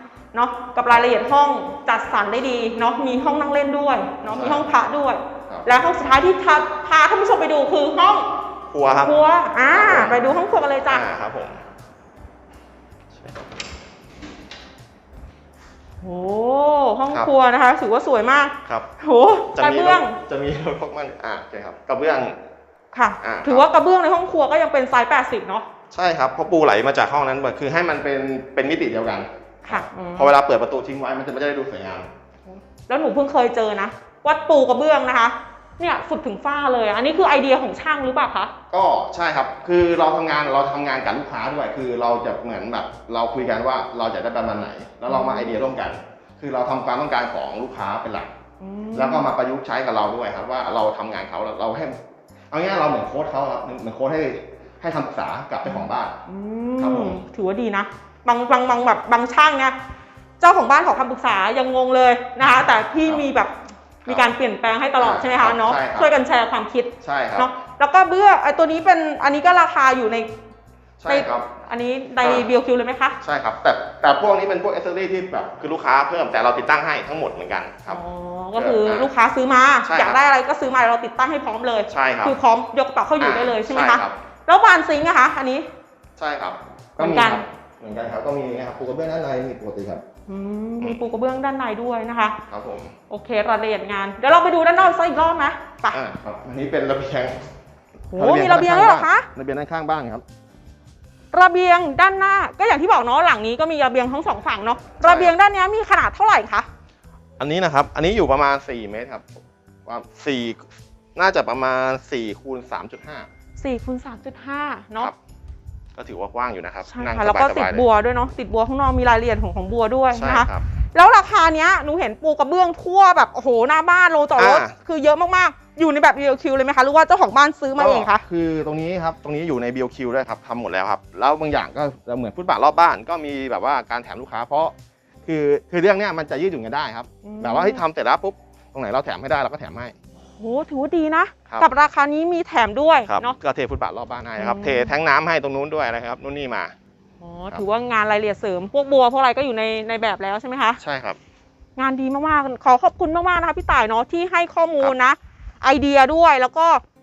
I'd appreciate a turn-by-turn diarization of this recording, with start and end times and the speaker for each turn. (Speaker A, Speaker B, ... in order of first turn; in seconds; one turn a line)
Speaker A: 0.3-8.3
Speaker B: 4.3-4.7
Speaker B: 8.7-9.2
Speaker A: 9.0-11.1
Speaker B: 9.7-10.3
Speaker B: 10.9-11.6
Speaker A: 16.0-20.2
Speaker B: 19.5-22.4
Speaker A: 22.9-25.7
Speaker B: 23.2-23.6
Speaker B: 25.9-32.1
Speaker A: 29.6-30.3
Speaker A: 32.5-38.5
Speaker B: 38.7-48.3
Speaker A: 45.1-45.6
Speaker A: 48.6-49.3
Speaker B: 48.9-52.0
Speaker B: 52.5-56.2
Speaker A: 55.6-59.8
Speaker B: 56.8-57.2
Speaker A: 60.4-63.5
Speaker B: 64.0-64.3
Speaker A: 64.0-70.3
Speaker B: 65.0-66.1
Speaker B: 67.0-67.5
Speaker B: 71.0-71.5
Speaker A: 71.0-73.2
Speaker B: 72.2-72.5
Speaker B: 73.2-78.0
Speaker A: 77.9-85.7
Speaker B: 78.5-79.1
Speaker B: 79.8-80.2
Speaker B: 81.9-82.4
Speaker B: 83.2-84.2
Speaker B: 86.2-90.0
Speaker A: 87.0-87.4
Speaker A: 90.3-92.4
Speaker B: 92.5-92.9
Speaker A: 93.1-96.0
Speaker B: 95.9-97.4
Speaker B: 98.1-100.2
Speaker A: 98.1-99.3
Speaker A: 101.3-106.7
Speaker B: 105.0-105.3
Speaker B: 107.4-109.3
Speaker B: 109.9-113.3
Speaker A: 113.6-115.1
Speaker B: 115.9-117.8
Speaker A: 116.9-128.2
Speaker B: 120.1-120.6
Speaker B: 124.4-124.8
Speaker B: 127.8-134.7
Speaker B: 135.2-139.9
Speaker A: 137.2-137.8
Speaker A: 140.4-143.3
Speaker B: 143.1-146.7
Speaker A: 144.4-144.9
Speaker A: 147.2-150.8
Speaker B: 150.8-151.2
Speaker A: 151.8-156.8